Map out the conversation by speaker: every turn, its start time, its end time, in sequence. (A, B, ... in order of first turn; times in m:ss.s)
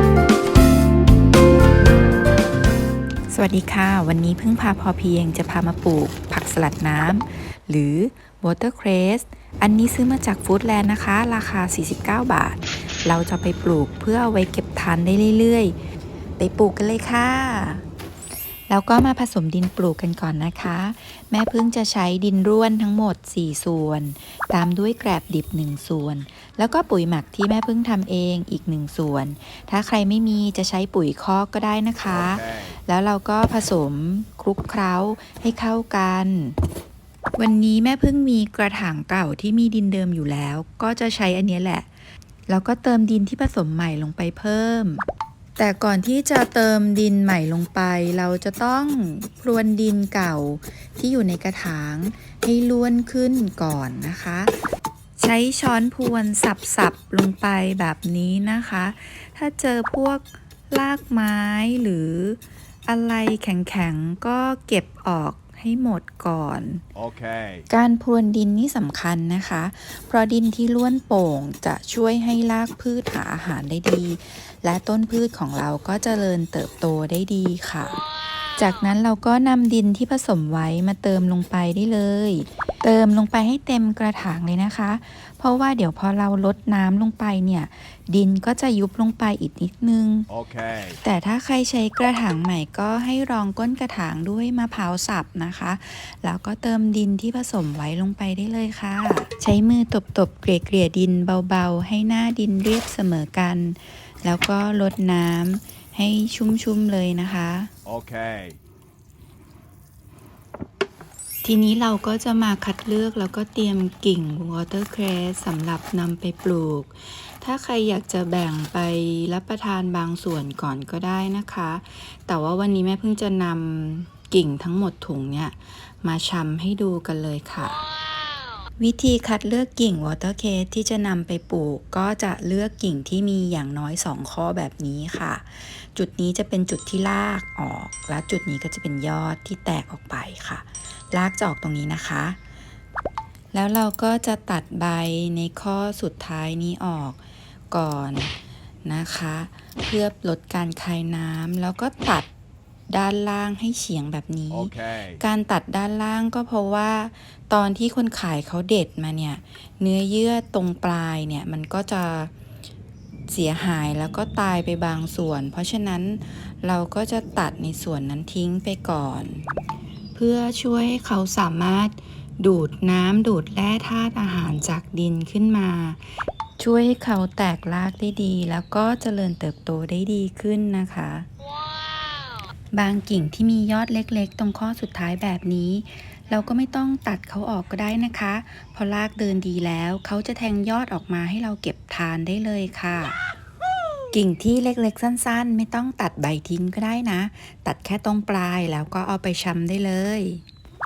0:03.3-0:15.8 A
0:16.4-0:17.8 A
0:18.7-0:36.6 A
0:32.1-0:32.8 B
0:37.4-0:41.9 A
0:42.5-0:45.0 A
0:45.6-0:54.5 A
0:55.2-1:06.8 A
1:07.0-1:07.6 B
1:07.7-1:18.0 A
1:18.6-1:30.3 A
1:30.3-1:31.0 B
1:31.0-1:47.7 A
1:47.9-1:48.6 B
1:51.4-2:07.8 A
2:08.8-2:22.4 A
2:23.5-2:27.2 A
2:27.7-2:28.3 A
2:28.8-2:32.3 A
2:32.9-2:42.3 A
2:34.5-2:35.2 B
2:43.3-2:49.4 A
2:50.1-2:56.0 A
2:56.6-3:01.3 A
3:02.7-3:13.2 A
3:14.1-3:20.4 A